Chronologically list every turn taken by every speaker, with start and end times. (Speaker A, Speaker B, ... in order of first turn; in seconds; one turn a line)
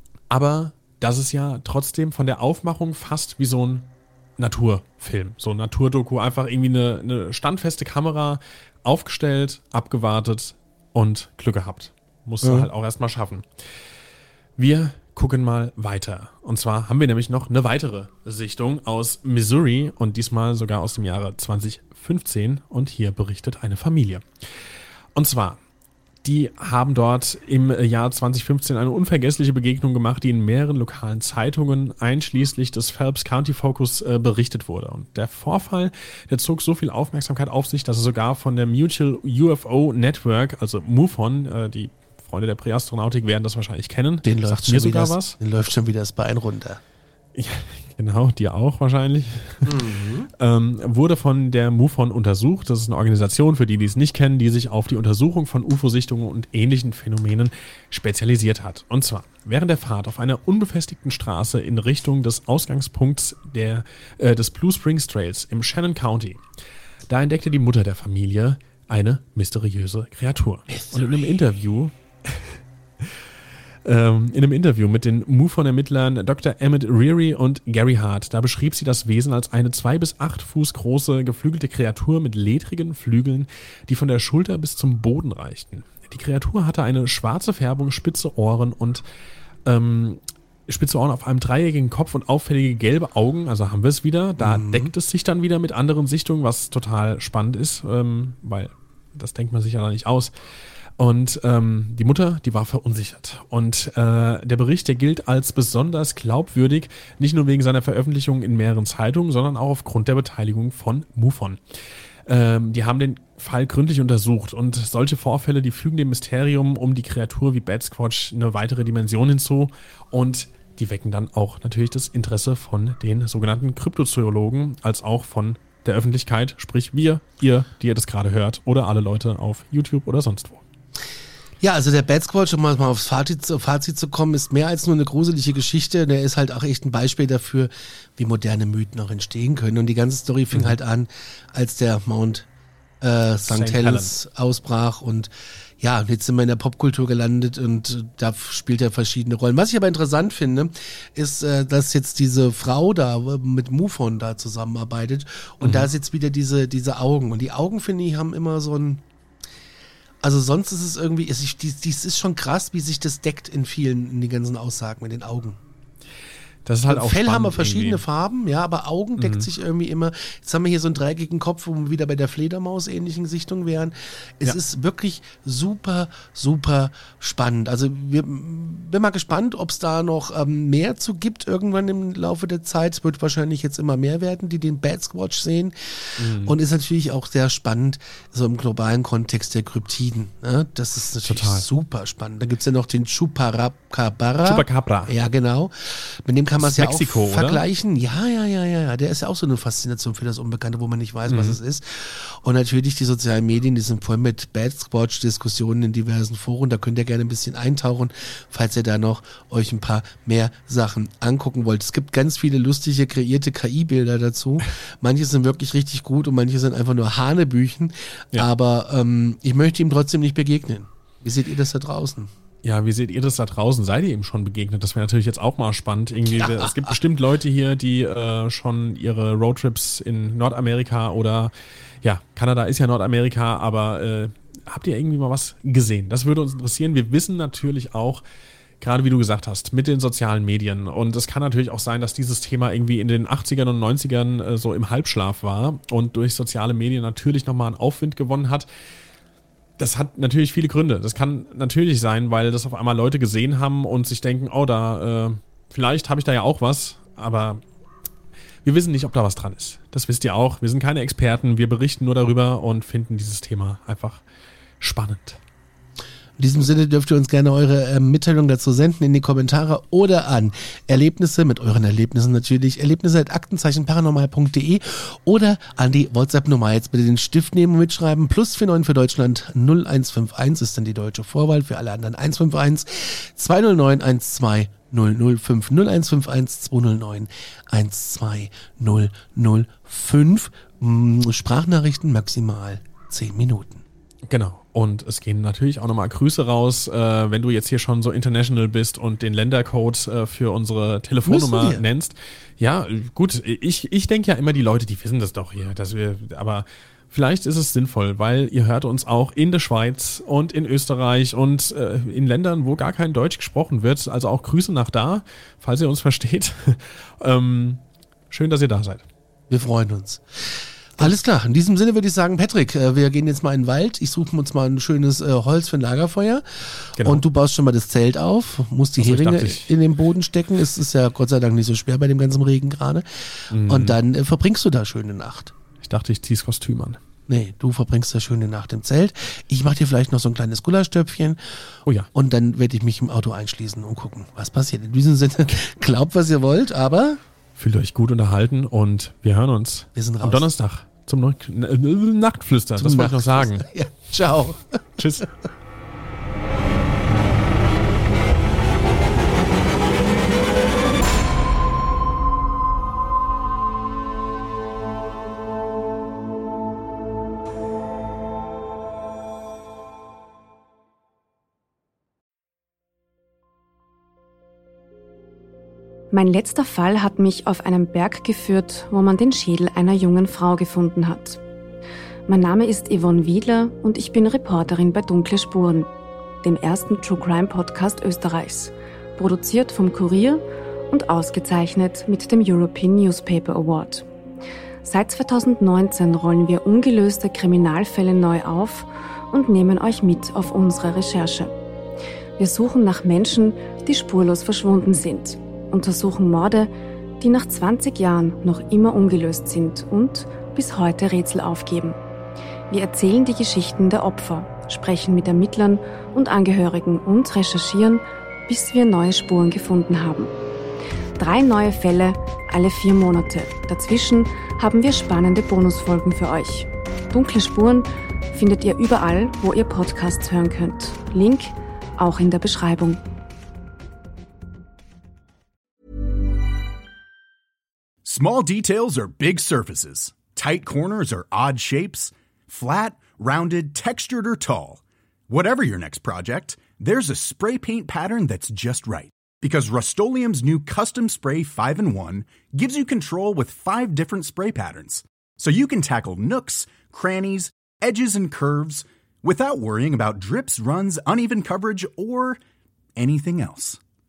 Speaker A: 0.3-13.4
Speaker B: 12.4-12.7
Speaker A: 14.6-24.2
Speaker A: 25.1-25.6
Speaker A: 26.2-45.4
Speaker B: 44.2-46.8
Speaker A: 47.3-49.7
Speaker B: 49.6-50.3
Speaker A: 50.4-66.4
Speaker A: 67.1-73.0
Speaker B: 70.7-71.2
Speaker A: 73.8-89.0
Speaker A: 89.6-100.3
Speaker B: 94.4-94.9
Speaker A: 101.0-111.6
Speaker A: 112.3-130.6
Speaker B: 131.6-142.5
Speaker B: 143.0-159.0
Speaker A: 143.5-144.1
Speaker A: 155.6-155.9
Speaker B: 160.2-165.6
Speaker A: 166.7-168.0
Speaker B: 166.9-222.3
Speaker A: 169.2-169.5
Speaker A: 186.2-186.5
Speaker A: 191.2-191.7
Speaker A: 194.4-195.1
Speaker A: 196.6-197.6
Speaker A: 201.3-201.6
Speaker A: 222.6-238.2
Speaker B: 226.3-226.9
Speaker A: 238.8-248.7
Speaker A: 249.8-257.6
Speaker A: 258.6-264.2
Speaker A: 264.8-265.4
Speaker B: 266.4-293.8
Speaker A: 294.3-319.0
Speaker B: 301.2-301.8
Speaker B: 319.5-335.5
Speaker A: 327.0-327.2
Speaker A: 329.0-329.7
Speaker A: 333.5-334.0
Speaker A: 335.8-337.0
Speaker B: 337.3-341.4
Speaker B: 342.1-347.2
Speaker A: 347.6-353.6
Speaker B: 349.9-350.5
Speaker B: 352.8-355.2
Speaker A: 355.0-355.3
Speaker C: 376.1-381.4
Speaker C: 382.3-385.9
Speaker C: 386.4-394.1
Speaker C: 394.8-401.5
Speaker C: 402.4-406.7
Speaker C: 407.2-412.0
Speaker C: 412.7-420.3
Speaker C: 421.2-433.0
Speaker D: 438.1-462.4
Speaker D: 462.9-463.8